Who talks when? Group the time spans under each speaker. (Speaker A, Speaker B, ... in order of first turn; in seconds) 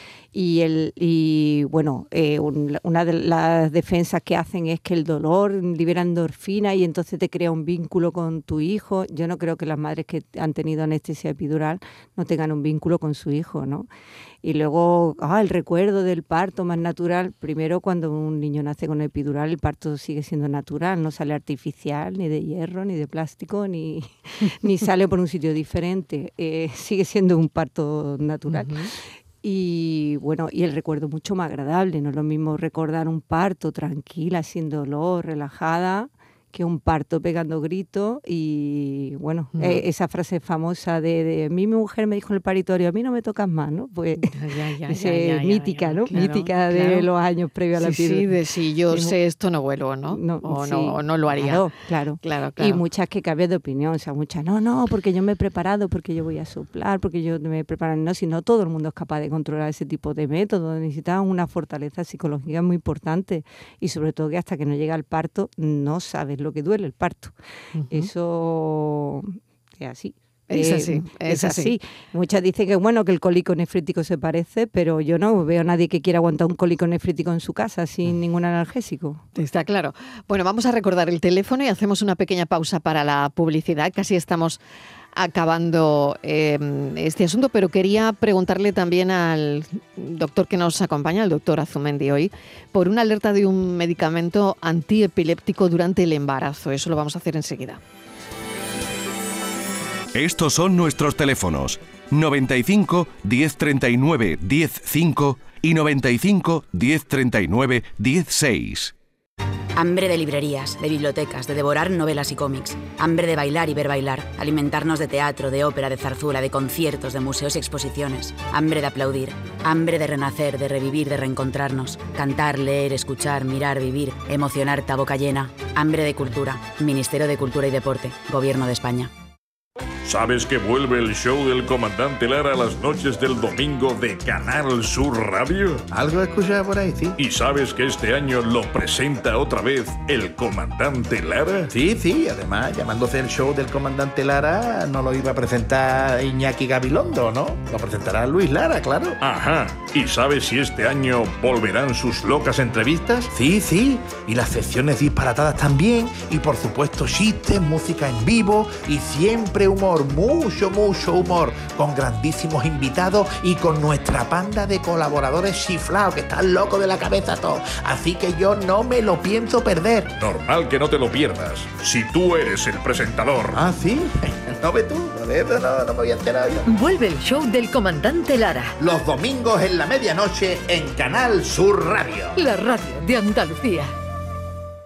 Speaker A: 0.3-13.9, 14.4-44.4, 44.9-48.4, 48.9-49.1, 50.1-67.3, 67.9-79.2
Speaker B: 28.5-28.9, 39.5-39.8, 44.2-47.1, 47.8-51.6, 52.2-52.8, 67.7-68.1, 70.5-71.7, 79.3-84.6, 85.1-97.8
Speaker C: 100.1-108.9
Speaker D: 109.7-129.1
Speaker E: 130.0-135.9, 137.2-141.7, 149.2-153.2, 170.2-173.6
Speaker F: 135.9-137.2, 141.7-149.2, 153.0-170.1, 173.5-176.7, 178.8-182.3
Speaker G: 176.7-178.7, 182.3-183.9